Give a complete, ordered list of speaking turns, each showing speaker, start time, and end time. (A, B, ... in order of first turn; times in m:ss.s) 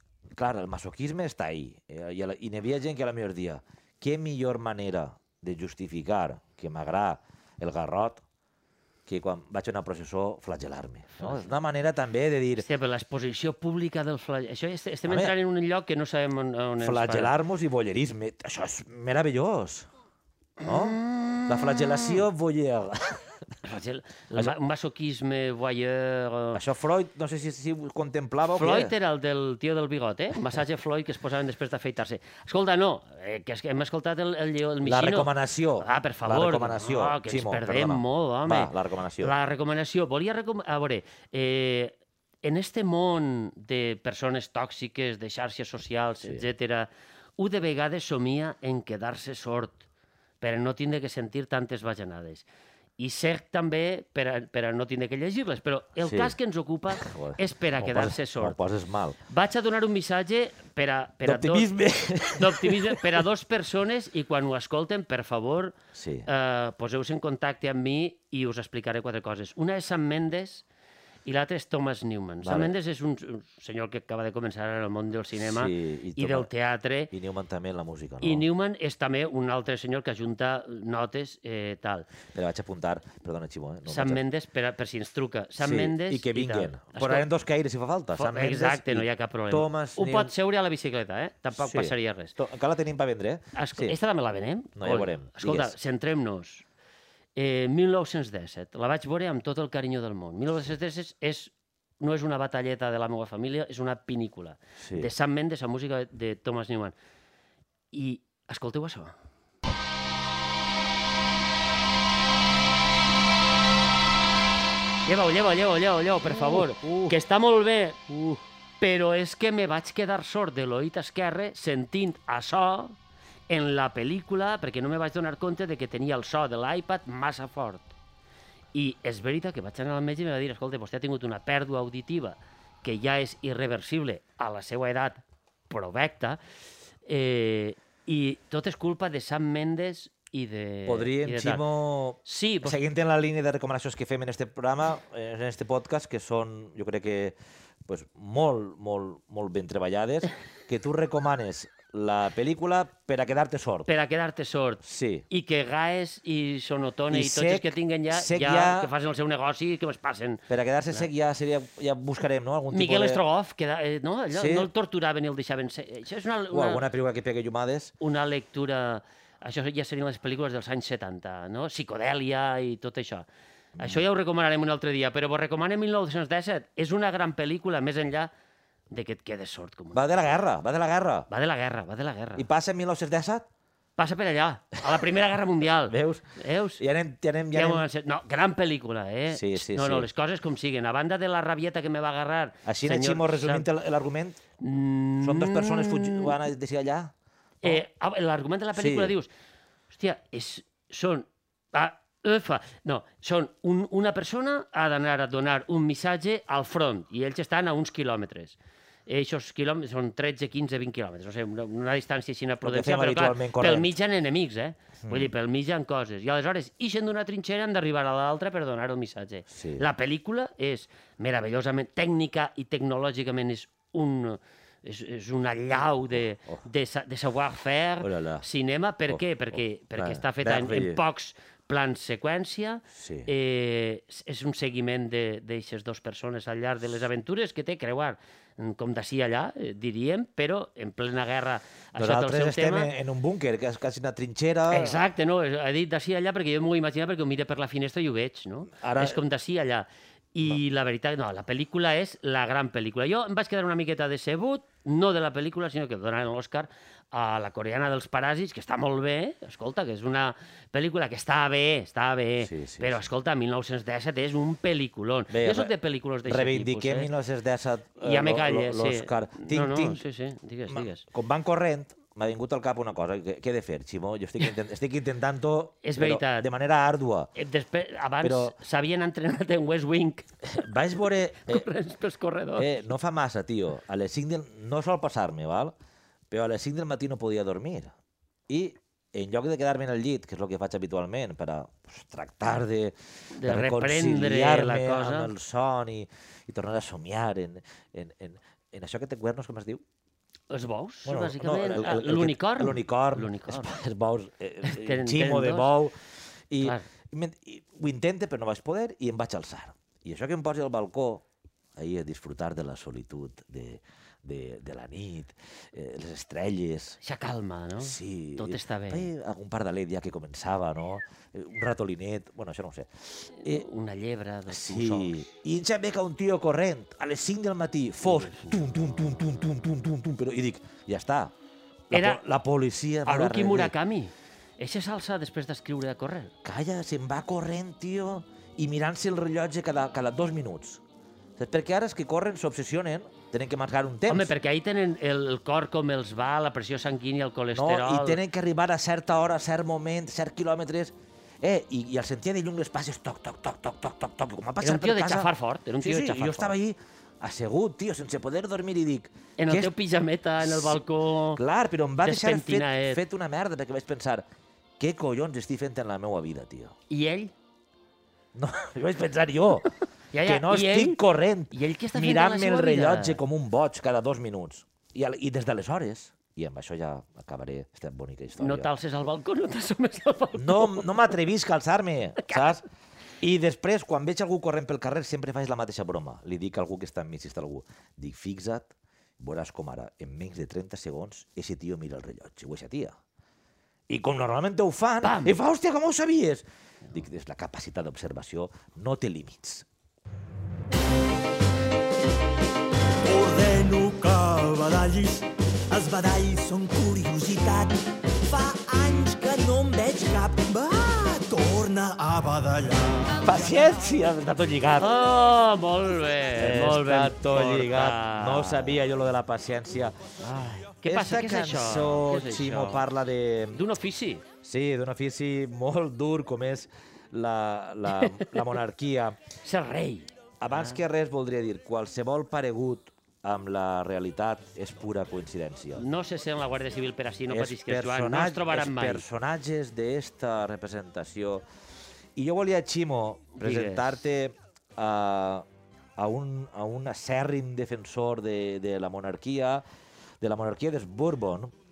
0:00.4-0:08.2 A
0:09.1-0:12.7 A
0:11.2-0:11.5 B
0:12.6-0:17.3 B
0:15.1-0:15.3 A
0:16.8-0:19.9 A
0:20.6-0:22.2 B
0:20.6-0:23.3 A
0:23.6-0:26.6 B
0:26.5-0:28.9 A
0:28.5-0:49.8 B
0:34.8-0:39.3 A
0:50.4-0:52.5 B
0:53.0-0:58.6 B
0:56.0-0:56.4 A
0:56.9-0:59.2 A
0:59.3-1:01.7 B
1:01.2-1:03.2 A
1:02.4-1:05.7 B
1:05.9-1:06.3 A
1:06.3-1:10.6 B
1:11.3-1:17.1 B
1:12.4-1:12.8 A
1:15.4-1:16.5 A
1:17.1-1:18.5 A
1:18.2-1:22.1 B
1:22.3-1:24.2 A
1:23.9-1:27.3 B
1:25.6-1:30.3 A
1:28.2-1:32.4 B
1:31.5-1:34.0 A
1:33.6-1:36.6 B
1:34.8-1:35.8 A
1:37.4-1:47.0 B
1:44.8-1:45.1 A
1:47.9-1:49.1 B
1:55.0-1:58.1 B
1:56.2-1:57.2 A
1:58.1-1:58.4 A
1:58.8-2:03.0 B
2:03.5-2:07.9 B
2:08.7-2:16.4 B
2:17.1-2:21.6 B
2:20.9-2:33.9 A
2:22.2-2:22.8 B
2:33.9-2:41.1 B
2:34.8-2:35.3 A
2:37.1-2:38.9 A
2:40.5-2:43.2 A
2:42.7-2:46.8 B
2:44.3-2:44.7 A
2:46.5-2:48.0 A
2:48.0-2:53.3 B
2:53.8-2:54.0 A
2:53.8-2:58.3 B
2:58.9-3:00.3 B
2:59.9-3:01.3 A
3:01.3-3:02.5 B
3:02.4-3:03.5 A
3:04.0-3:06.8 B
3:05.9-3:06.3 A
3:06.8-3:07.8 A
3:07.5-3:13.7 B
3:09.3-3:10.1 A
3:12.6-3:14.4 A
3:14.6-3:16.4 B
3:15.2-3:17.8 A
3:17.6-3:19.3 B
3:18.8-3:19.1 A
3:19.9-4:02.9 B
3:32.6-3:33.9 A
3:35.0-3:35.3 A
3:39.5-3:39.8 A
3:46.1-3:46.6 A
3:48.0-3:48.4 A
3:49.1-3:51.0 A
3:52.9-3:53.3 A
4:02.0-4:05.0 A
4:04.7-4:27.1 B
4:08.7-4:09.2 A
4:22.4-4:23.1 A
4:25.3-4:25.7 A
4:26.2-4:30.0 A
4:28.0-4:31.0 B
4:30.7-4:37.3 A
4:35.8-4:36.5 B
4:37.4-4:40.3 B
4:38.2-4:38.6 A
4:40.5-4:41.7 A
4:41.4-4:42.7 B
4:42.6-4:45.8 A
4:46.3-4:47.9 A
4:48.5-4:59.8 A
4:53.3-4:55.3 B
5:00.5-5:03.8 B
5:01.1-5:06.0 A
5:04.6-5:05.7 B
5:06.5-5:11.2 A
5:11.8-5:17.0 A
5:17.0-5:19.1 B
5:17.8-5:23.7 A
5:23.4-5:25.3 B
5:24.5-5:31.3 A
5:28.0-5:28.6 B
5:31.9-5:33.7 A
5:31.9-5:32.2 B
5:33.1-5:36.3 B
5:36.4-5:40.8 A
5:41.4-5:44.3 A
5:44.1-5:48.2 B
5:47.5-5:55.3 A
5:54.6-5:56.6 B
5:55.8-5:59.7 A
5:59.4-6:01.4 B
6:00.4-6:00.8 A
6:01.4-6:04.3 A
6:02.0-6:03.0 B
6:04.8-6:06.8 A
6:06.9-6:07.3 B
6:08.3-6:09.7 A
6:10.1-6:11.0 B
6:10.2-6:18.7 A
6:11.5-6:13.2 B
6:18.4-6:20.9 B
6:20.4-6:22.6 A
6:22.2-6:22.5 B
6:23.2-6:33.0 A
6:33.9-6:39.7 A
6:35.0-6:35.4 B
6:43.0-6:53.7 C
6:53.2-6:55.0 A
6:54.8-6:58.8 B
6:56.3-7:00.0 A
7:00.2-7:02.9 B
7:00.8-7:03.6 A
7:03.5-7:04.2 B
7:04.4-7:09.2 A
7:07.9-7:08.3 B
7:09.4-7:10.8 B
7:10.4-7:15.8 A
7:15.8-7:19.0 B
7:17.3-7:21.4 A
7:22.2-7:25.5 A
7:23.4-7:24.0 B
7:26.0-7:29.6 A
7:30.2-7:31.5 A